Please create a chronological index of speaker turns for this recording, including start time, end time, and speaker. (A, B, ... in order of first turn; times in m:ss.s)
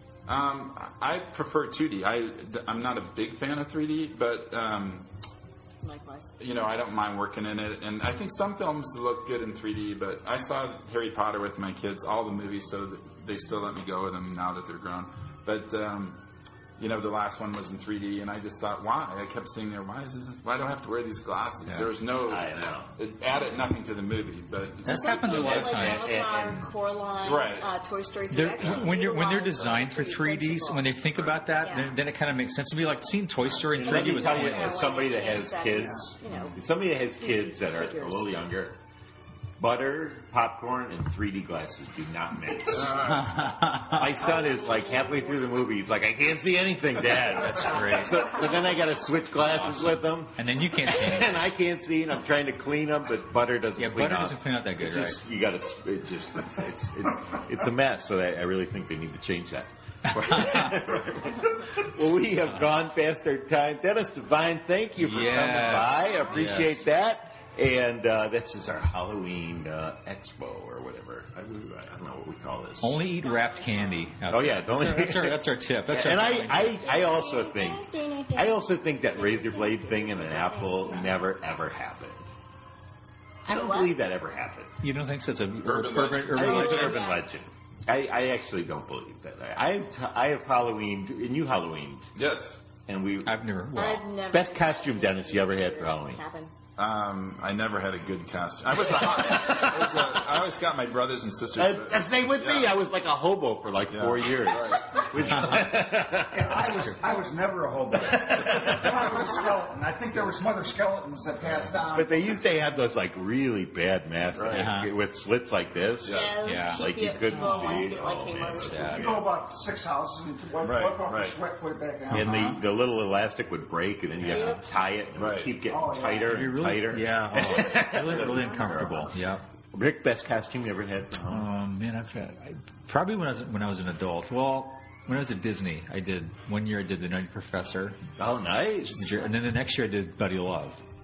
0:00.3-0:05.1 A
0:05.8-0:06.4 B
0:06.4-0:16.2 A
0:16.8-0:25.9 A
0:22.2-0:22.9 C
0:24.8-0:26.1 D
0:24.9-0:30.9 B
0:25.3-0:26.6 C
0:27.2-0:27.7 A
0:28.3-0:35.0 D
0:31.6-0:32.0 B
0:33.8-0:38.8 C
0:33.8-0:36.6 B
0:36.3-0:36.5 A
0:37.2-0:38.3 B
0:39.6-1:13.0 C
0:42.7-0:43.5 A
0:42.9-0:44.2 D
0:44.4-0:45.3 B
0:47.4-0:48.4 D
0:49.6-0:51.4 D
0:53.8-0:55.2 D
1:00.1-1:00.8 D
1:05.0-1:06.8 D
1:05.4-1:06.4 B
1:12.8-1:16.8 D
1:13.0-1:14.2 B
1:14.3-1:22.3 C
1:16.8-1:21.1 B
1:23.5-1:23.9 B
1:23.5-1:24.7 C
1:24.8-1:27.0 D
1:25.6-1:27.0 A
1:26.3-1:32.1 C
1:26.4-1:27.2 B
1:32.2-1:32.6 A
1:32.9-1:33.4 C
1:33.2-1:34.1 D
1:33.7-1:36.5 B
1:34.3-1:36.2 C
1:36.8-1:42.7 A
1:39.2-1:40.1 C
1:41.5-1:46.9 C
1:43.9-1:45.6 A
1:45.2-1:45.9 D
1:46.3-1:52.2 E
1:46.6-1:47.0 D
1:48.6-1:49.0 A
1:51.4-1:51.7 A
1:51.9-1:59.2 C
1:54.3-1:54.7 A
1:54.5-1:54.9 D
1:56.0-1:56.4 A
1:56.0-1:59.0 B
1:56.4-1:57.9 D
1:58.5-1:59.1 D
1:58.9-2:02.4 E
1:59.0-1:59.2 A
2:00.6-2:01.4 A
2:02.1-2:02.6 D
2:02.1-2:09.1 C
2:04.2-2:04.5 D
2:04.3-2:04.6 B
2:05.2-2:05.5 A
2:05.7-2:06.4 E
2:06.2-2:09.4 D
2:09.7-2:11.5 C
2:11.2-2:18.0 D
2:18.2-2:19.2 C
2:18.9-2:20.8 D